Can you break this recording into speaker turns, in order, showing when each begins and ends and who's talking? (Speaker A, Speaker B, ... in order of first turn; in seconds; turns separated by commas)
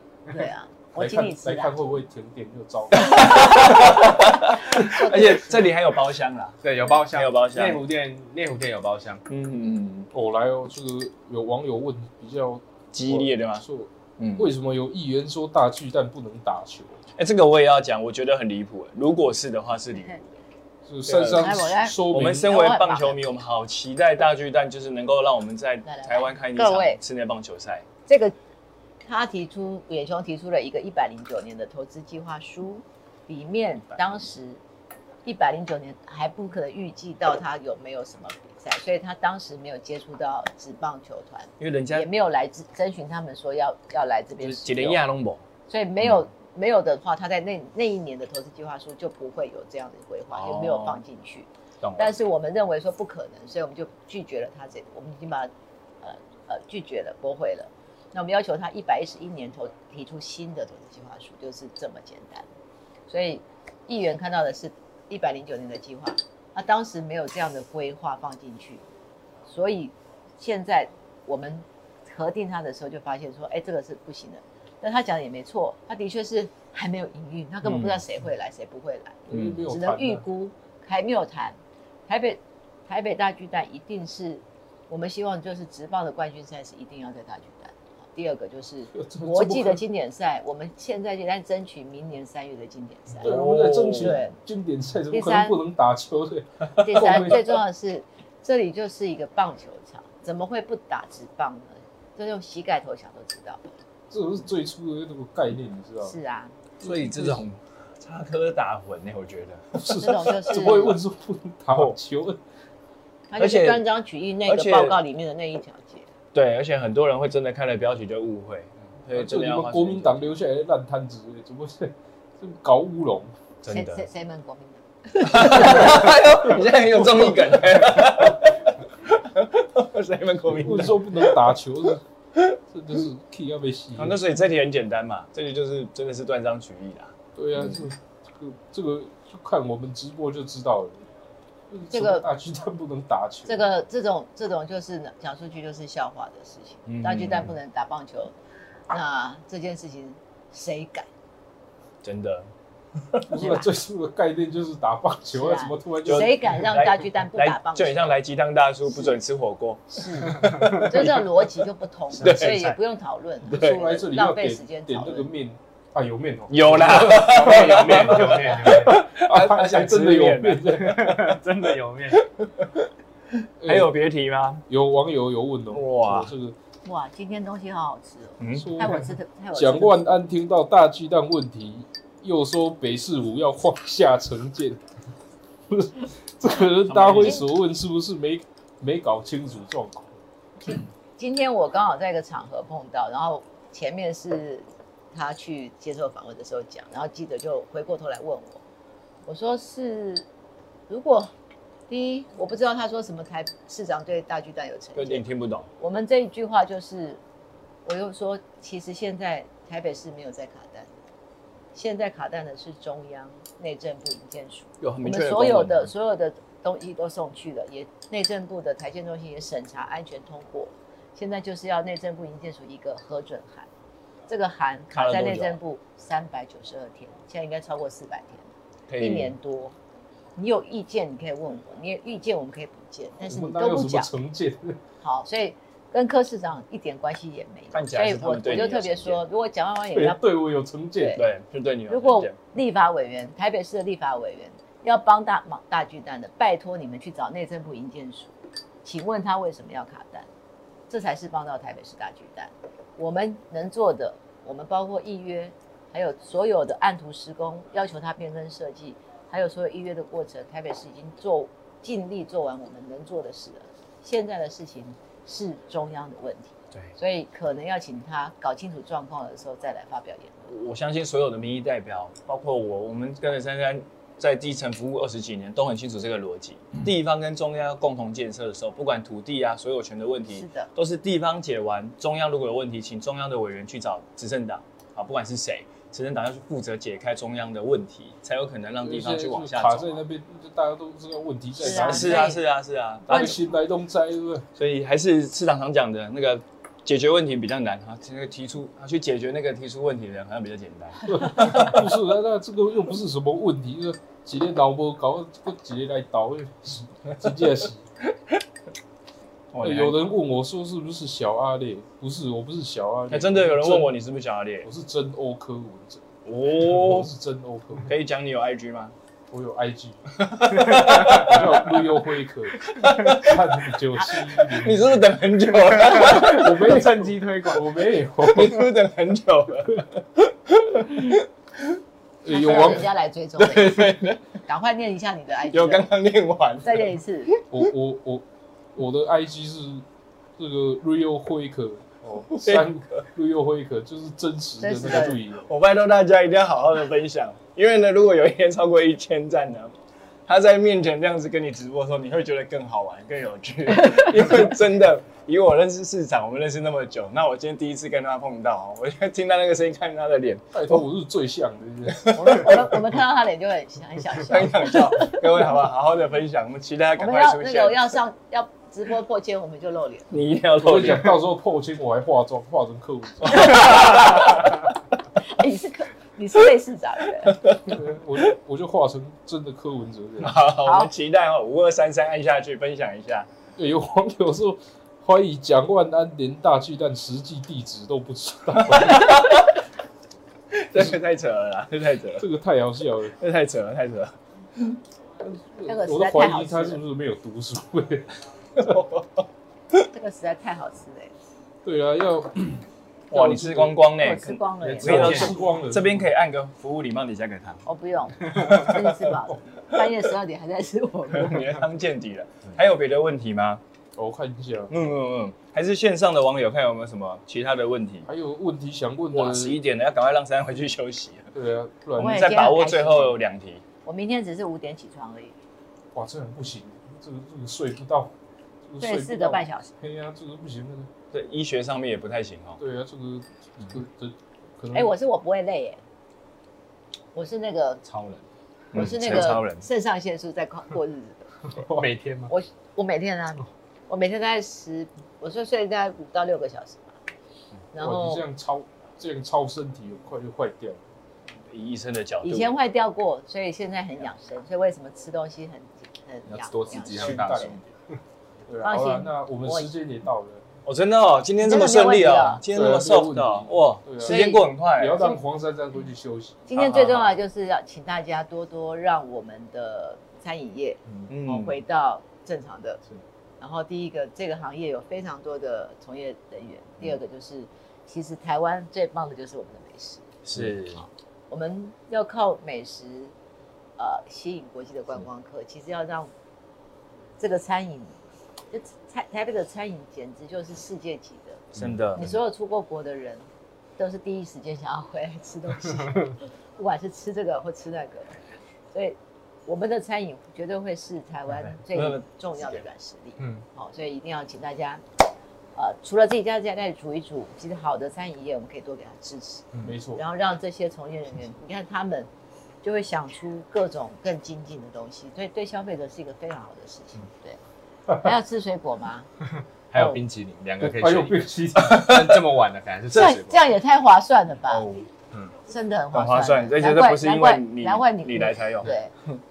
Speaker A: 0.3-1.8, Speaker B: 1.0-3.7, Speaker C: 3.0-7.8, Speaker A: 3.4-3.9, Speaker A: 4.7-5.7, Speaker D: 6.6-9.2, Speaker C: 9.3-10.1, Speaker B: 10.1-17.0, Speaker C: 12.9-13.6, Speaker C: 14.2-14.5, Speaker C: 17.2-20.4, Speaker B: 20.9-22.6, Speaker C: 21.1-27.9, Speaker A: 21.4-23.2, Speaker A: 25.9-27.0, Speaker A: 28.1-28.4, Speaker A: 29.1-34.6, Speaker A: 35.2-45.0, Speaker C: 41.6-42.1, Speaker C: 44.4-45.4, Speaker A: 45.7-55.5, Speaker C: 50.3-51.0, Speaker C: 51.8-52.1, Speaker A: 56.0-62.5, Speaker A: 63.1-68.8, Speaker A: 69.5-93.3, Speaker C: 77.6-78.1, Speaker B: 79.3-80.2, Speaker C: 79.3-79.6, Speaker B: 88.9-89.8, Speaker B: 93.2-97.6, Speaker C: 93.2-94.2, Speaker A: 94.0-94.4, Speaker A: 95.1-95.6, Speaker A: 96.8-103.8, Speaker C: 96.9-97.4, Speaker B: 104.1-106.2, Speaker A: 106.0-106.6, Speaker C: 106.8-110.1, Speaker B: 106.8-107.4, Speaker B: 109.8-112.4, Speaker A: 110.0-111.0, Speaker C: 111.7-112.0, Speaker A: 113.3-116.1, Speaker C: 113.4-113.8, Speaker C: 114.5-115.0, Speaker C: 116.3-120.3, Speaker B: 119.1-123.3, Speaker C: 123.6-124.1, Speaker A: 123.7-126.2, Speaker C: 125.2-131.5, Speaker B: 130.5-132.0, Speaker B: 132.7-134.3, Speaker C: 133.9-137.9, Speaker B: 137.4-141.1, Speaker B: 141.7-143.6, Speaker A: 141.9-142.3, Speaker A: 143.4-148.4, Speaker C: 146.9-147.5, Speaker A: 148.9-151.1, Speaker C: 152.0-152.5, Speaker B: 153.3-156.6, Speaker A: 153.4-153.7, Speaker A: 155.3-158.2, Speaker C: 156.0-161.3, Speaker A: 159.9-165.3, Speaker D: 160.3-160.9, Speaker C: 162.2-162.8, Speaker D: 162.2-162.7, Speaker B: 163.5-171.4, Speaker C: 163.5-163.8, Speaker C: 166.5-170.7, Speaker D: 166.8-169.0, Speaker D: 170.7-172.3, Speaker C: 172.2-172.9, Speaker C: 173.6-174.7, Speaker B: 173.6-173.9, Speaker B: 174.7-176.6, Speaker C: 175.7-176.3, Speaker A: 176.8-180.0, Speaker C: 178.4-178.8, Speaker B: 178.5-184.8, Speaker B: 185.7-190.2, Speaker C: 186.9-187.4, Speaker A: 190.6-198.6, Speaker A: 199.3-200.3, Speaker A: 200.9-201.3, Speaker A: 201.9-205.3, Speaker C: 204.9-205.7, Speaker A: 205.8-207.2, Speaker A: 207.9-211.0, Speaker A: 211.7-223.7, Speaker C: 214.8-215.9, Speaker A: 224.3-229.8, Speaker C: 224.9-225.6, Speaker C: 228.9-229.3, Speaker A: 230.4-234.1, Speaker B: 233.2-234.8, Speaker A: 235.0-240.2, Speaker C: 237.7-239.2, Speaker B: 239.9-241.2, Speaker A: 241.0-241.2, Speaker C: 241.2-242.4, Speaker A: 241.9-250.3, Speaker A: 250.9-270.5, Speaker C: 270.5-290.0, Speaker A: 280.3-280.7, Speaker B: 288.8-292.3, Speaker A: 291.6-292.4, Speaker C: 291.6-293.4, Speaker B: 293.1-294.5, Speaker C: 294.6-301.7, Speaker B: 301.1-307.9, Speaker C: 309.5-310.0, Speaker B: 309.6-313.9, Speaker C: 313.1-314.7, Speaker B: 314.6-317.9, Speaker C: 316.3-317.1, Speaker C: 317.8-318.9, Speaker B: 319.3-325.1, Speaker C: 320.2-321.9, Speaker C: 322.7-331.8, Speaker B: 325.9-328.7, Speaker D: 326.7-327.0, Speaker B: 332.2-332.9, Speaker A: 332.3-335.9, Speaker C: 333.4-334.2, Speaker C: 335.5-337.7, Speaker A: 336.6-337.3, Speaker B: 337.5-339.9, Speaker B: 340.4-345.5, Speaker C: 342.3-343.0, Speaker A: 344.6-345.2, Speaker C: 344.9-349.8, Speaker C: 350.3-360.9, Speaker B: 360.5-362.7, Speaker C: 361.9-362.7, Speaker A: 362.1-365.2, Speaker C: 364.1-367.9, Speaker A: 367.0-370.1, Speaker C: 370.1-371.2, Speaker B: 370.6-374.0, Speaker C: 373.2-374.6, Speaker A: 373.5-374.4, Speaker A: 375.2-377.4, Speaker C: 377.2-378.3, Speaker B: 377.7-380.4, Speaker C: 380.2-383.3, Speaker A: 380.6-380.9, Speaker B: 383.6-389.1, Speaker C: 388.7-389.6, Speaker C: 390.5-392.3, Speaker B: 392.2-393.1, Speaker C: 393.1-394.8, Speaker B: 395.2-398.2, Speaker A: 395.7-396.8, Speaker C: 398.6-399.2, Speaker A: 399.9-401.1, Speaker B: 401.6-403.9, Speaker C: 403.1-407.6, Speaker A: 404.0-405.5, Speaker D: 404.6-405.4, Speaker B: 404.8-406.1, Speaker A: 407.7-411.6, Speaker D: 408.3-408.6, Speaker C: 411.1-413.6, Speaker B: 414.0-414.7, Speaker C: 414.7-418.1, Speaker B: 418.1-419.6, Speaker C: 419.1-421.3, Speaker B: 421.4-422.3, Speaker A: 422.0-423.2, Speaker C: 422.0-423.6, Speaker A: 423.9-425.3, Speaker B: 425.9-428.1, Speaker B: 428.7-430.9, Speaker A: 428.8-429.7, Speaker C: 431.1-432.6, Speaker B: 432.6-434.9, Speaker A: 434.7-435.8, Speaker A: 437.1-437.8, Speaker D: 437.9-438.2, Speaker C: 438.7-439.7, Speaker A: 438.7-441.4, Speaker D: 441.6-442.3, Speaker A: 442.3-447.0, Speaker A: 447.7-448.2, Speaker B: 447.8-450.8, Speaker C: 451.5-452.5, Speaker A: 452.2-457.5, Speaker D: 456.3-458.0, Speaker B: 456.9-457.6, Speaker B: 458.5-460.4, Speaker A: 458.6-459.7, Speaker C: 460.6-465.1, Speaker A: 461.4-462.5, Speaker B: 462.5-466.5, Speaker A: 464.0-465.2, Speaker A: 466.5-472.8, Speaker C: 466.6-467.1, Speaker C: 471.1-471.6, Speaker A: 473.4-480.1, Speaker C: 480.2-480.8, Speaker A: 480.7-483.1, Speaker A: 483.8-486.1, Speaker A: 487.2-488.0, Speaker A: 488.5-498.2, Speaker C: 491.6-492.2, Speaker A: 498.7-504.8, Speaker C: 501.4-502.6, Speaker A: 505.6-512.1, Speaker B: 509.6-510.0, Speaker A: 512.6-517.4, Speaker A: 517.9-519.1, Speaker D: 519.2-523.5, Speaker B: 520.6-521.9, Speaker C: 521.6-522.2, Speaker A: 522.9-524.8, Speaker C: 524.5-524.8, Speaker A: 525.5-528.9, Speaker C: 525.9-529.2